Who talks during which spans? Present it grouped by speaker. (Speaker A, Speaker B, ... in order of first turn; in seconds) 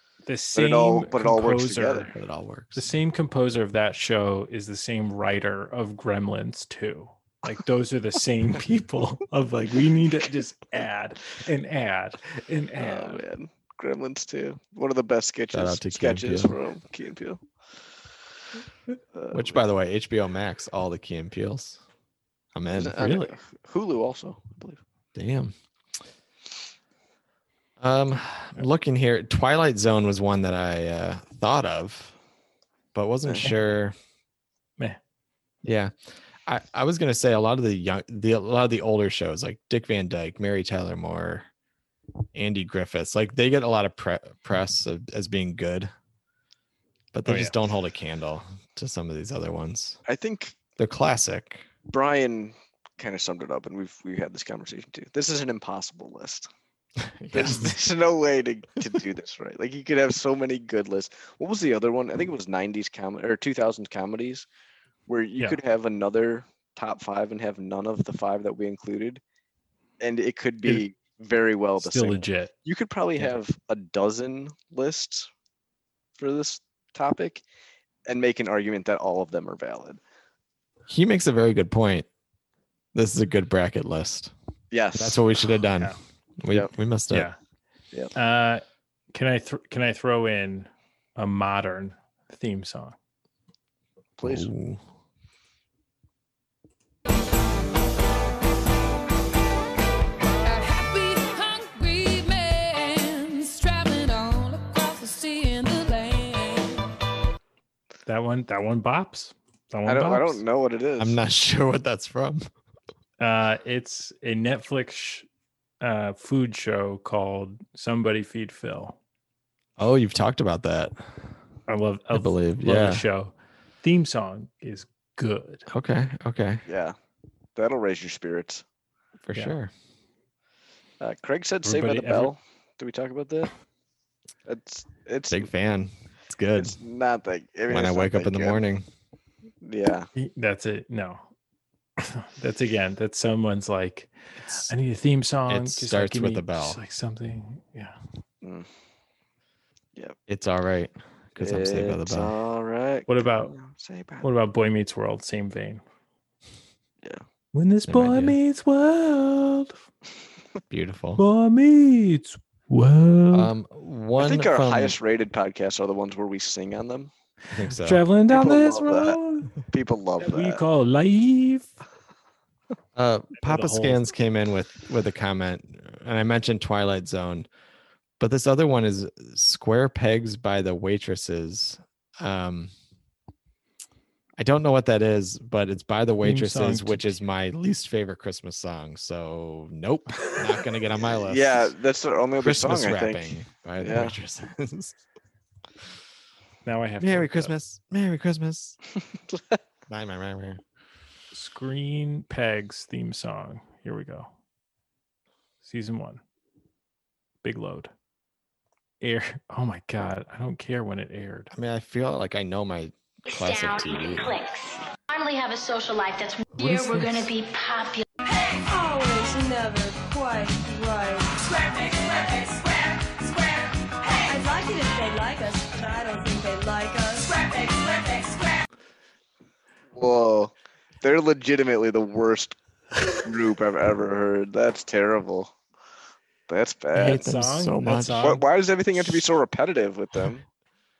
Speaker A: 0.2-2.1, 2.7-13.2, 47.2-47.5, 71.8-72.5, 87.1-87.3, 88.1-93.0, 108.0-110.4, 113.2-115.2, 115.8-119.0, 121.7-125.6, 131.6-132.3, 140.2-141.3, 142.0-148.0, 153.1-153.5, 154.2-155.8, 157.5-159.8, 161.2-163.5, 167.7-169.6, 170.2-171.7, 173.4-174.1, 186.2-187.1, 196.6-197.5, 201.3-204.3, 205.6-206.2, 207.4-207.9, 209.0-211.5, 236.9-238.4
Speaker B: 0.5-2.1, 12.8-17.4, 19.1-19.6, 22.7-24.8, 50.0-50.5, 51.9-56.5, 57.3-64.5, 65.1-69.2, 70.0-75.3, 76.2-77.4, 78.0-80.0, 84.7-85.2, 94.2-94.5, 109.8-111.2, 126.7-127.0, 127.5-128.6, 131.0-133.5, 134.4-135.5, 136.5-138.6, 139.6-140.1, 148.4-148.7, 151.4-154.3, 164.2-167.1, 168.3-169.2, 169.7-170.6, 190.9-194.2, 229.9-232.6, 233.1-235.5, 236.5-237.2, 238.2-240.4
Speaker C: 2.1-2.9, 15.5-16.5, 19.3-21.8, 22.5-23.3, 25.1-25.5, 27.8-32.1, 32.9-33.9, 35.6-35.9, 36.5-41.5, 42.3-45.9, 47.1-50.0, 50.8-51.6, 57.0-57.7, 80.9-82.1, 82.9-84.3, 85.0-87.3, 94.2-94.8, 111.0-112.5, 119.8-120.9, 122.1-123.0, 125.7-126.6, 129.2-129.7, 135.3-136.8, 137.7-138.9, 145.5-146.8, 150.3-152.3, 157.9-158.4, 160.7-161.2, 163.3-164.9, 167.5-168.0, 172.9-177.5, 178.2-182.7, 184.4-191.7, 192.4-195.0, 197.0-198.8, 199.9-200.6, 211.5-214.3, 216.5-217.3, 237.0-238.2
Speaker D: 100.4-106.8, 218.2-218.6, 221.4-224.3, 227.2-228.6
Speaker E: 213.3-218.0
Speaker F: 218.7-221.4, 224.2-227.3